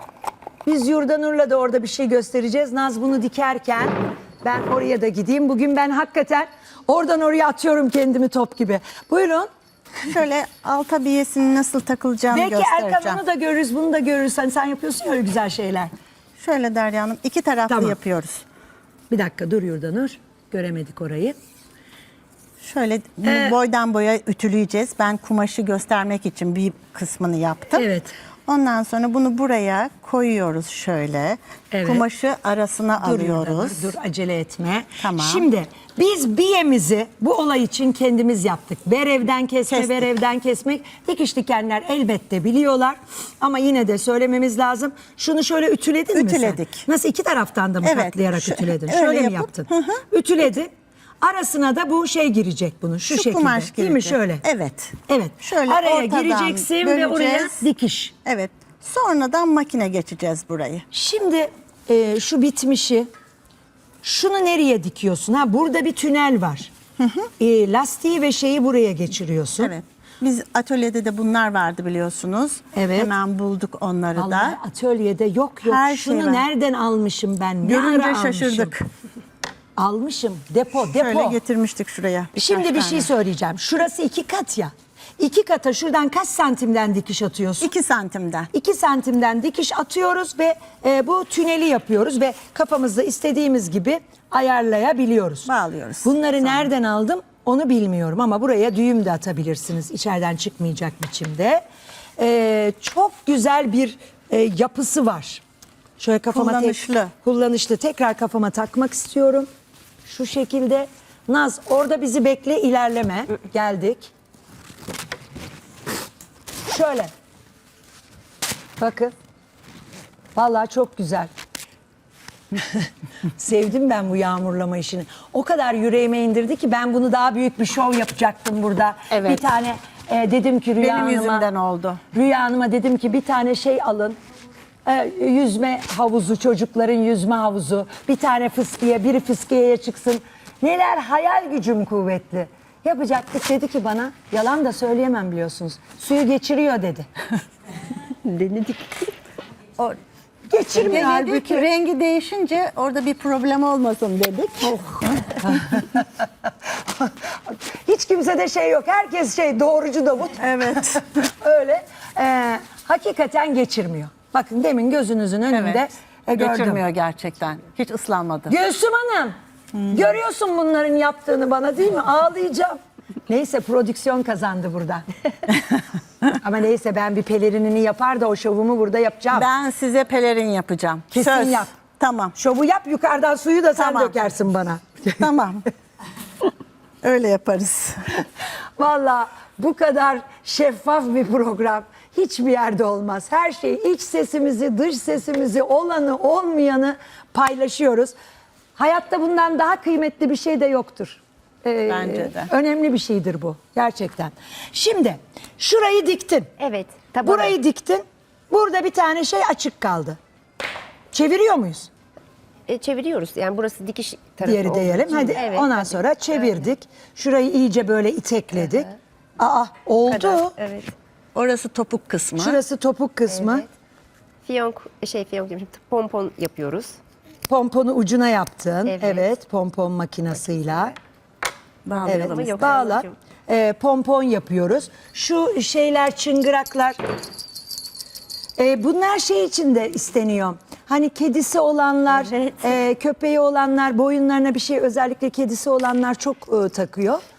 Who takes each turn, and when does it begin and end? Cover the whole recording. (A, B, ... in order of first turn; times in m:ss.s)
0:00.6-0:09.5 A
0:10.1-0:13.2 B
0:12.3-0:15.9 A
0:16.4-0:18.4 B
0:17.7-0:18.0 A
0:19.1-0:21.3 A
0:22.6-0:27.8 B
0:23.2-0:23.6 A
0:27.7-0:28.1 A
0:28.5-0:33.9 B
0:31.7-0:32.0 A
0:33.0-0:50.7 A
0:35.0-0:35.5 B
0:39.7-0:40.0 B
0:46.1-0:46.9 B
0:47.8-0:50.0 B
0:51.2-0:54.4 A
0:53.1-0:57.6 B
0:55.1-0:58.1 A
0:58.2-1:00.9 B
1:00.9-1:03.1 A
1:04.0-1:06.7 A
1:07.0-1:07.3 B
1:07.4-1:09.7 A
1:09.6-1:14.6 B
1:12.7-1:13.1 A
1:14.1-1:18.7 A
1:15.6-1:16.4 B
1:17.6-1:18.8 B
1:19.8-1:21.4 A
1:20.9-1:23.1 B
1:22.4-1:27.7 A
1:27.6-1:28.5 B
1:28.5-1:35.5 A
1:35.4-1:36.7 B
1:36.0-1:41.6 A
1:42.2-1:45.4 A
1:46.0-1:49.5 A
1:46.3-1:47.1 B
1:50.0-1:54.1 A
1:56.7-1:57.1 A
1:58.8-1:59.1 A
2:00.4-2:01.3 A
2:02.6-2:11.5 A
2:09.1-2:09.4 B
2:10.8-2:12.0 B
2:12.1-2:14.2 A
2:14.8-2:27.1 A
2:28.2-2:29.1 C
2:30.5-2:31.6 A
2:30.7-2:35.8 B
2:35.4-2:36.0 A
2:36.9-2:46.8 A
2:40.4-2:41.0 B
2:45.5-2:48.6 B
2:48.5-2:55.1 A
2:56.3-2:59.5 A
2:59.3-3:02.3 B
3:01.1-3:01.8 A
3:02.3-3:05.3 A
3:03.7-3:04.2 B
3:05.2-3:05.6 B
3:07.0-3:08.1 B
3:08.8-3:18.1 A
3:18.8-3:26.5 A
3:21.9-3:22.5 B
3:26.6-3:27.5 C
3:27.2-3:30.2 A
3:31.1-3:31.9 A
3:32.7-3:36.6 C
3:34.4-3:40.6 A
3:40.1-3:40.9 C
3:41.3-3:42.6 B
3:42.4-3:43.6 A
3:43.3-3:43.6 C
3:44.4-3:47.0 C
3:47.5-3:50.9 A
3:48.9-3:49.2 C
3:51.8-3:52.8 B
3:51.9-3:53.1 C
3:52.0-3:57.0 A
3:58.6-4:07.2 A
4:02.2-4:02.8 C